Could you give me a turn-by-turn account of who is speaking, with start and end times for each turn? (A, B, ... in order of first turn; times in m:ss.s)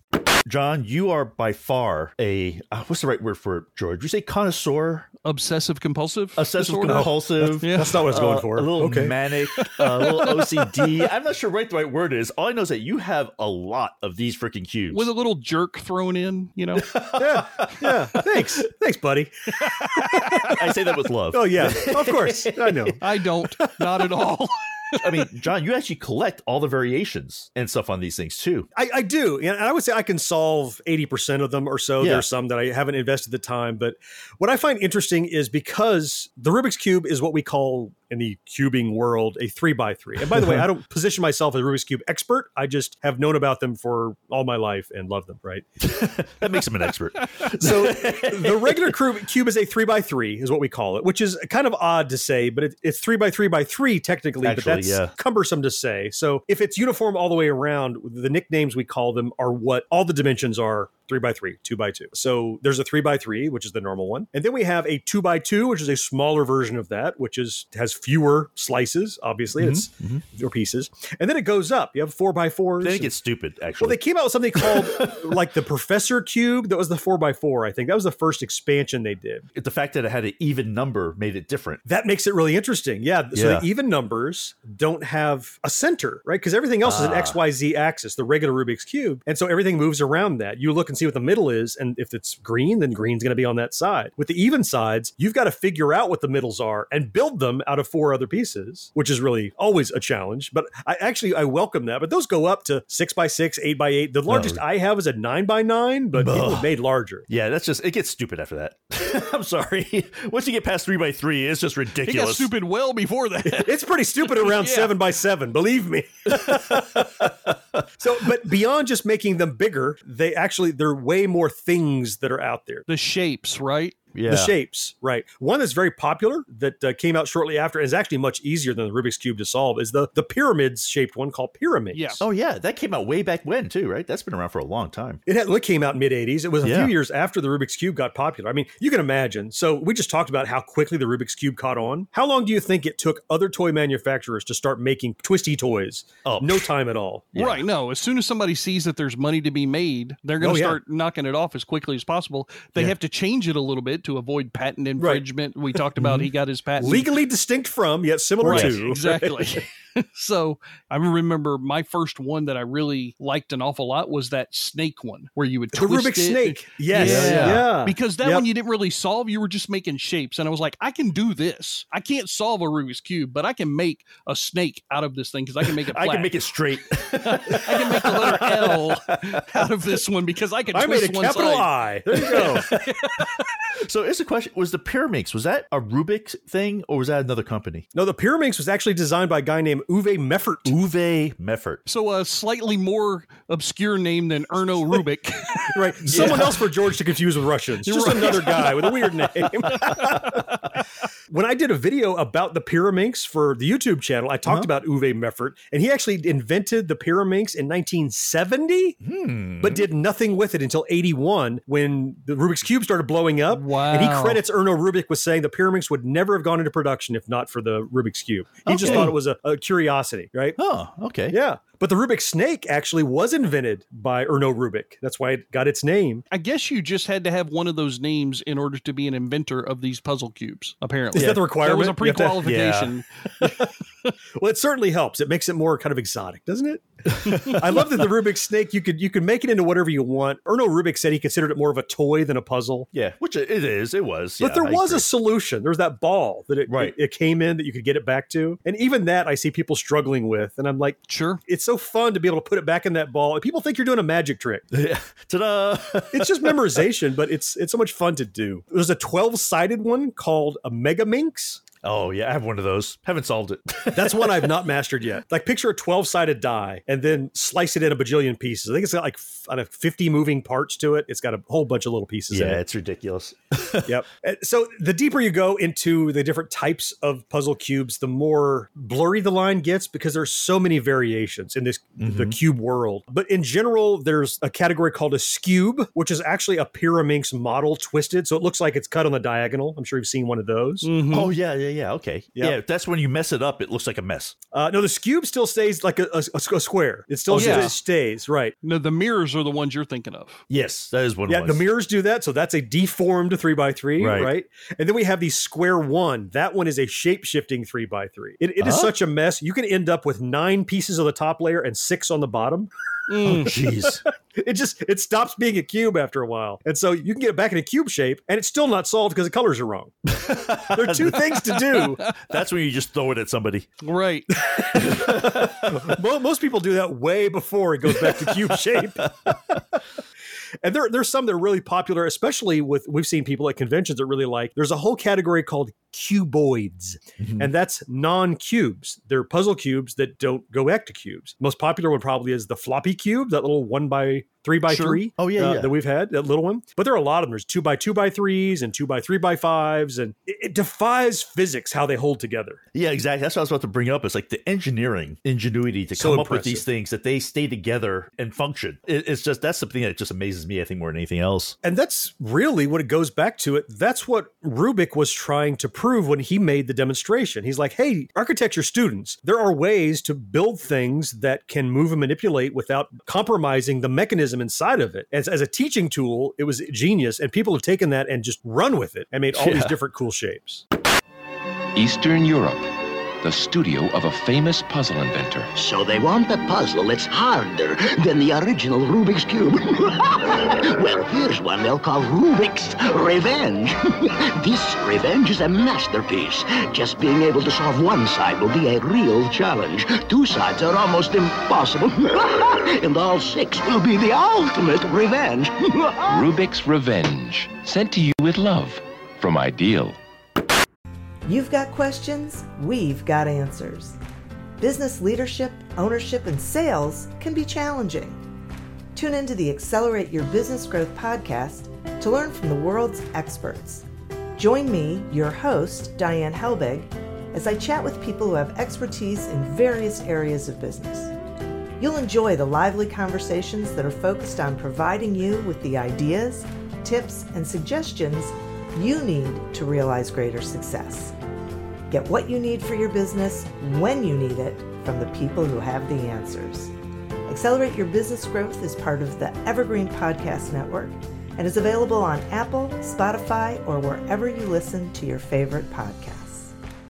0:00.4-0:05.1 A
0:05.2-0:08.0 B
0:06.4-0:15.1 A
0:06.8-0:09.1 C
0:09.6-0:10.5 B
0:14.9-0:16.9 B
0:16.8-0:18.5 A
0:17.2-0:19.3 C
0:20.0-0:20.5 C
0:20.5-0:23.0 A
0:21.3-0:23.0 C
0:23.0-0:25.3 B
0:25.0-0:28.7 A
0:28.7-0:45.7 C
0:32.0-0:32.3 A
0:40.3-0:40.6 A
0:45.8-0:49.0 A
0:47.6-1:13.1 C
0:54.4-0:55.1 A
1:09.5-1:10.2 A
1:12.8-1:14.0 A
1:13.8-1:19.5 C
1:14.6-1:15.2 A
1:19.5-1:21.8 A
1:21.8-1:47.3 C
1:23.3-1:23.6 A
1:26.8-1:27.4 A
1:44.3-1:44.6 A
1:46.1-1:46.7 A
1:47.3-1:52.5 A
1:52.0-1:54.9 B
1:53.5-1:57.1 C
1:56.3-1:56.8 A
1:58.0-2:02.9 C
2:02.9-2:04.0 B
2:04.1-2:04.5 A
2:04.3-2:12.2 C
2:11.9-2:12.2 B
2:12.2-2:15.2 A
2:15.2-2:27.3 C
2:16.6-2:16.9 A
2:26.2-2:26.7 A
2:27.4-2:27.6 A
2:27.4-2:37.1 B
2:30.4-2:30.8 C
2:36.0-2:36.3 A
2:36.8-2:39.6 C
2:38.4-2:56.4 B
2:38.4-2:38.8 A
2:45.7-2:48.4 C
2:46.9-2:47.7 A
2:55.9-2:58.5 A
2:57.2-3:03.3 B
3:00.7-3:02.7 C
3:03.8-3:07.9 A
3:07.9-3:10.7 C
3:10.6-3:11.8 A
3:11.9-3:16.6 B
3:15.7-3:20.4 C
3:16.0-3:16.7 A
3:17.8-3:20.4 B
3:21.3-3:29.0 C
3:24.4-3:24.7 A
3:29.0-3:29.9 A
3:29.6-3:40.6 C
3:33.5-3:34.4 B
3:38.7-3:39.2 A
3:38.8-3:39.1 B
3:40.6-3:41.4 A
3:41.3-3:46.2 C
3:46.3-3:53.5 B
3:51.1-3:51.4 A
3:51.1-3:52.5 C
3:52.4-3:53.0 A
3:54.4-4:02.9 C
3:57.1-3:57.5 A
4:02.9-4:05.1 A
4:04.4-4:14.6 C
4:06.7-4:07.0 A
4:11.1-4:11.4 B
4:14.7-4:16.8 A
4:16.1-4:21.6 C
4:21.8-4:24.6 A
4:23.9-4:32.6 C
4:32.3-4:33.9 A
4:33.9-4:50.9 C
4:42.0-4:42.4 A
4:50.8-4:51.3 B
4:51.1-4:54.4 A
4:54.5-4:58.5 C
4:57.3-4:57.7 A
4:57.3-4:57.8 B
4:58.6-5:00.4 B
5:00.5-5:01.6 A
5:01.3-5:12.7 C
5:04.0-5:04.3 A
5:08.6-5:08.9 A
5:13.1-5:13.5 B
5:13.2-5:14.0 A
5:14.4-5:19.9 C
5:20.1-5:23.7 A
5:20.7-5:22.0 C
5:21.8-5:22.1 B
5:23.8-5:24.3 B
5:24.5-5:29.1 C
5:24.7-5:25.8 A
5:27.9-5:28.5 A
5:29.2-5:29.6 A
5:30.6-5:52.6 C
5:37.2-5:37.5 A
5:44.7-5:45.0 B
5:45.2-5:45.7 A
5:52.7-6:01.6 A
5:56.0-5:56.6 C
6:01.6-6:20.6 C
6:19.3-6:19.8 A
6:21.7-6:22.7 D
6:23.2-6:25.5 D
6:25.5-6:46.3 E
6:46.1-6:50.0 D
6:51.2-6:54.0 F
6:54.6-6:58.2 F
6:58.9-7:03.8 F
7:04.4-7:11.1 F
7:11.8-7:21.1 F
7:21.9-7:26.7 F
7:27.3-7:36.5 F